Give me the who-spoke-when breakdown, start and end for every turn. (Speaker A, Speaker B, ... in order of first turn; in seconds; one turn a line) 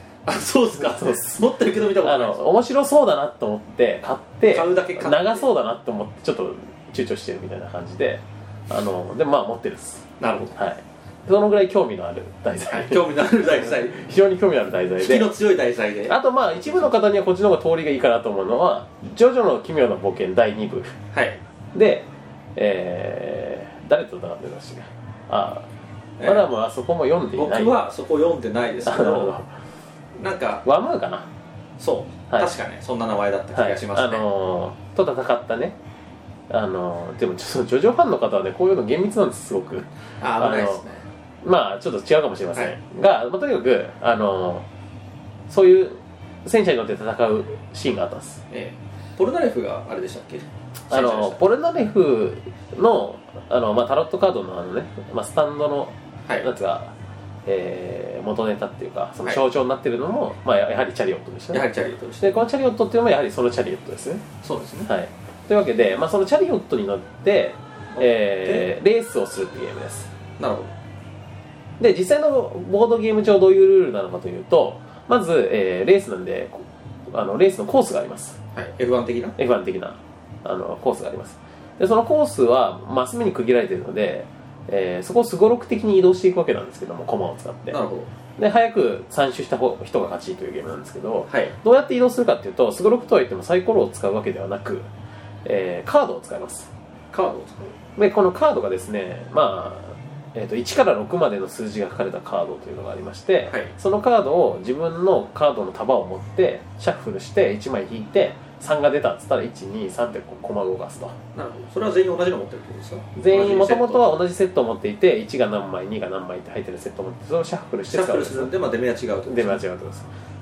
Speaker A: 0.2-2.4
Speaker B: 0.8-1.4
Speaker B: 2.0-15.3
Speaker A: 4.5-5.5
Speaker A: 10.2-10.5
Speaker A: 12.7-14.0
Speaker A: 15.0-16.2
Speaker B: 16.1-21.0
Speaker A: 21.1-21.4
Speaker B: 21.7-25.7
Speaker A: 26.2-26.5
Speaker B: 26.2-27.8
Speaker A: 27.4-29.3
Speaker B: 28.8-29.5
Speaker A: 30.2-30.6
Speaker B: 30.6-31.3
Speaker A: 31.8-34.2
Speaker B: 33.5-35.8
Speaker B: 36.5-40.8
Speaker A: 40.2-41.0
Speaker B: 41.4-44.6
Speaker B: 45.5-48.4
Speaker A: 48.5-51.4
Speaker B: 50.9-56.9
Speaker B: 57.5-61.6
Speaker A: 61.5-62.4
Speaker B: 62.2-64.2
Speaker A: 64.4-64.9
Speaker B: 64.8-70.1
Speaker A: 67.9-68.7
Speaker A: 70.4-70.7
Speaker B: 71.8-78.4
Speaker A: 78.5-79.3
Speaker B: 79.4-87.8
Speaker A: 87.7-88.1
Speaker B: 88.4-94.9
Speaker A: 91.3-91.5
Speaker B: 95.4-96.7
Speaker A: 97.1-97.7
Speaker B: 98.0-111.2
Speaker A: 111.3-114.1
Speaker B: 113.2-118.5
Speaker A: 117.9-119.6
Speaker B: 119.3-120.1